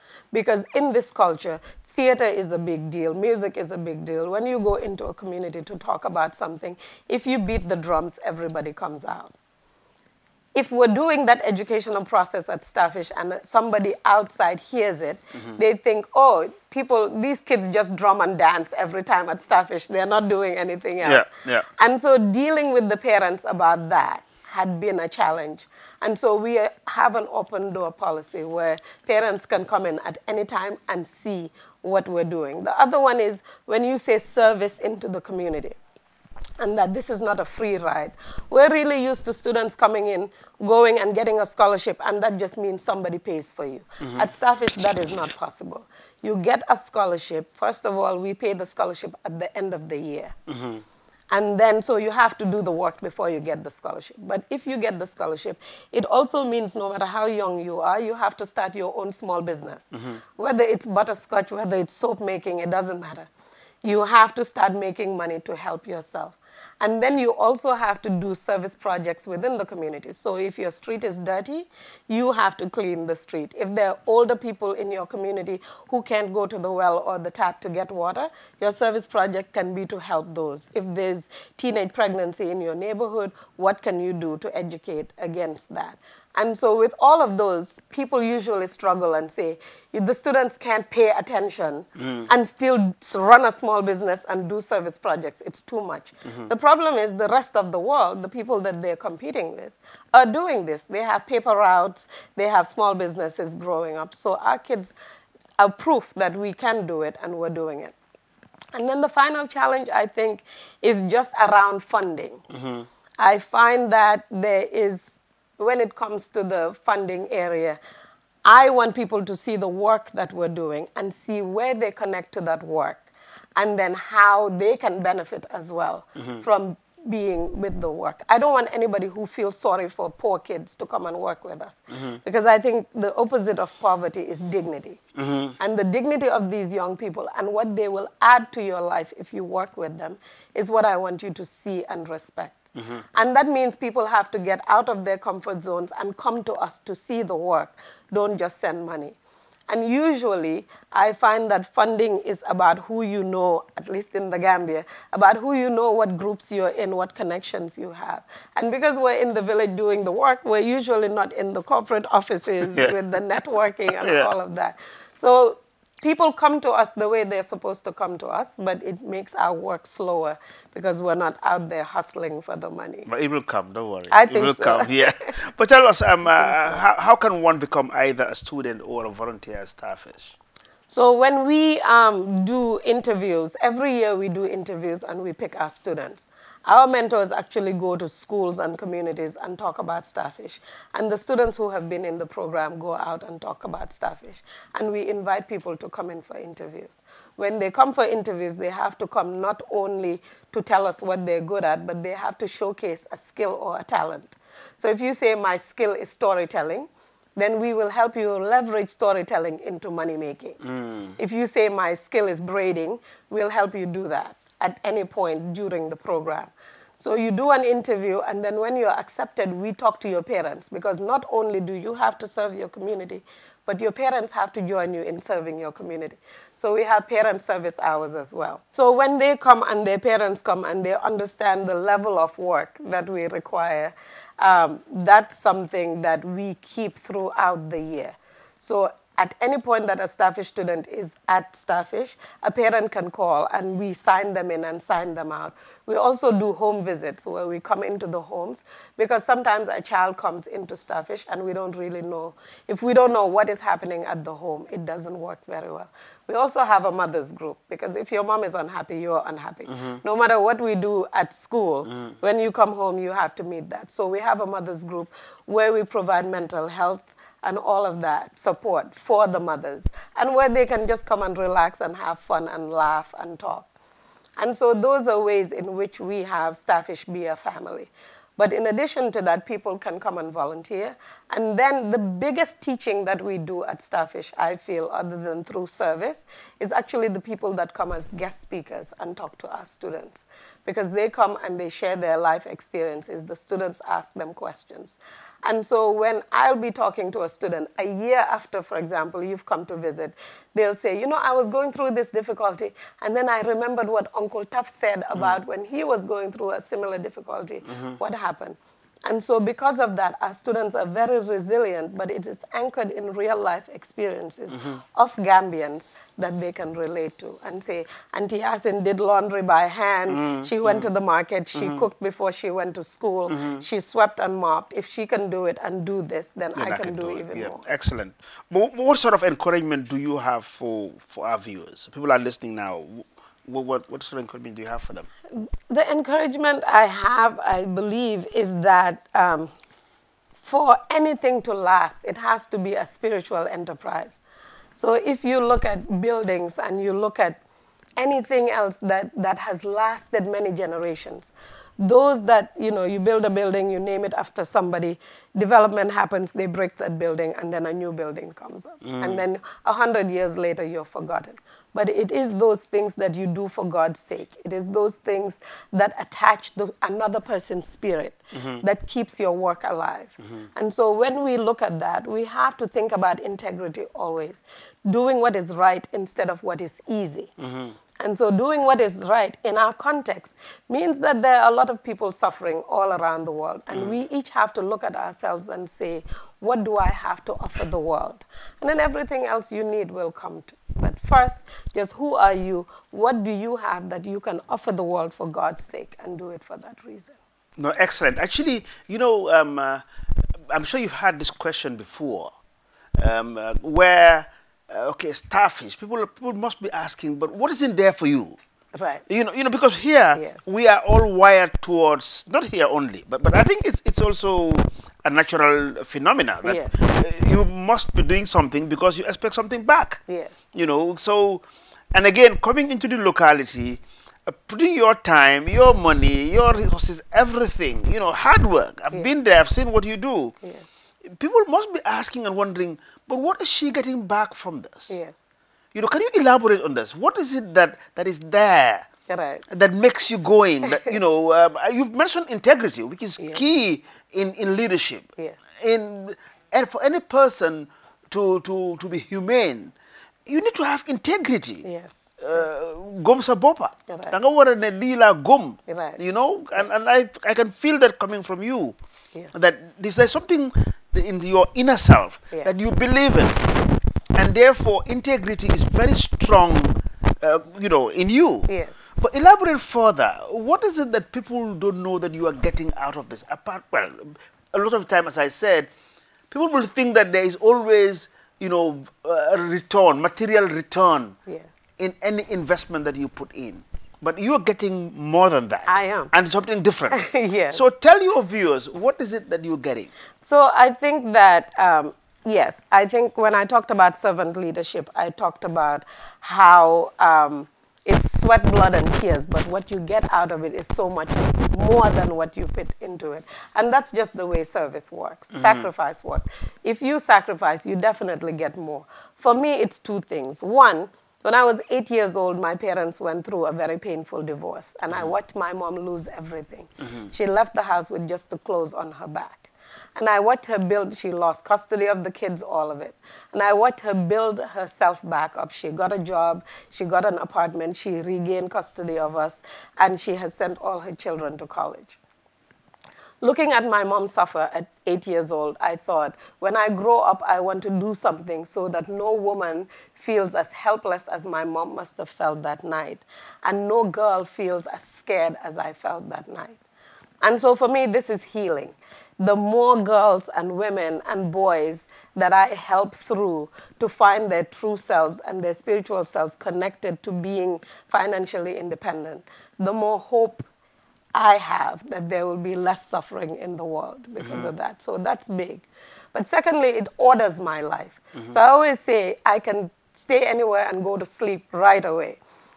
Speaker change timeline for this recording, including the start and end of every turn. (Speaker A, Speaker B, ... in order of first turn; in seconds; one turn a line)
Speaker A: 0.3-9.3
Speaker A: 10.5-35.8
Speaker B: 21.0-21.6
Speaker A: 36.6-50.4
Speaker B: 50.5-50.8
Speaker A: 51.3-63.3
Speaker A: 63.8-104.9
Speaker A: 105.6-107.9
Speaker A: 108.7-112.4
Speaker B: 112.5-112.8
Speaker A: 113.2-117.8
Speaker A: 118.4-123.0
Speaker A: 123.5-135.0
Speaker B: 135.2-135.5
Speaker A: 135.6-149.2
Speaker A: 149.7-173.1
Speaker B: 164.0-164.3
Speaker B: 173.1-180.3
Speaker A: 174.1-175.3
Speaker A: 180.9-210.6
Speaker B: 210.7-211.1
Speaker A: 211.2-273.7
Speaker B: 259.7-260.0
Speaker A: 274.4-327.6
Speaker B: 320.1-320.9
Speaker B: 321.6-321.8
Speaker B: 323.3-323.6
Speaker B: 326.5-335.1
Speaker A: 335.4-339.5
Speaker A: 340.4-344.2
Speaker A: 344.8-347.4
Speaker A: 348.0-377.3
Speaker B: 358.8-359.2
Speaker B: 368.3-368.6
Speaker B: 377.4-377.7
Speaker A: 378.0-397.1
Speaker B: 397.6-399.8
Speaker B: 400.5-402.3
Speaker B: 403.0-408.4
Speaker A: 408.7-409.0
Speaker B: 409.1-420.0
Speaker A: 410.1-410.4
Speaker A: 416.4-416.8
Speaker A: 420.1-420.4
Speaker B: 420.5-430.3
Speaker B: 431.0-434.9
Speaker A: 434.9-435.2
Speaker B: 435.7-438.9
Speaker A: 439.1-439.4
Speaker B: 439.5-449.7
Speaker B: 450.2-451.7
Speaker A: 451.6-452.1
Speaker B: 452.2-458.8
Speaker A: 453.9-454.1
Speaker A: 455.7-456.0
Speaker B: 459.3-463.6
Speaker B: 464.1-475.7
Speaker A: 468.5-468.7
Speaker B: 476.3-481.2
Speaker A: 481.3-481.5
Speaker B: 481.8-489.9
Speaker A: 485.7-486.1
Speaker A: 486.9-487.6
Speaker A: 490.2-532.0
Speaker B: 505.3-505.7
Speaker A: 533.2-546.6
Speaker A: 547.2-560.4
Speaker A: 561.1-572.2
Speaker B: 564.2-564.5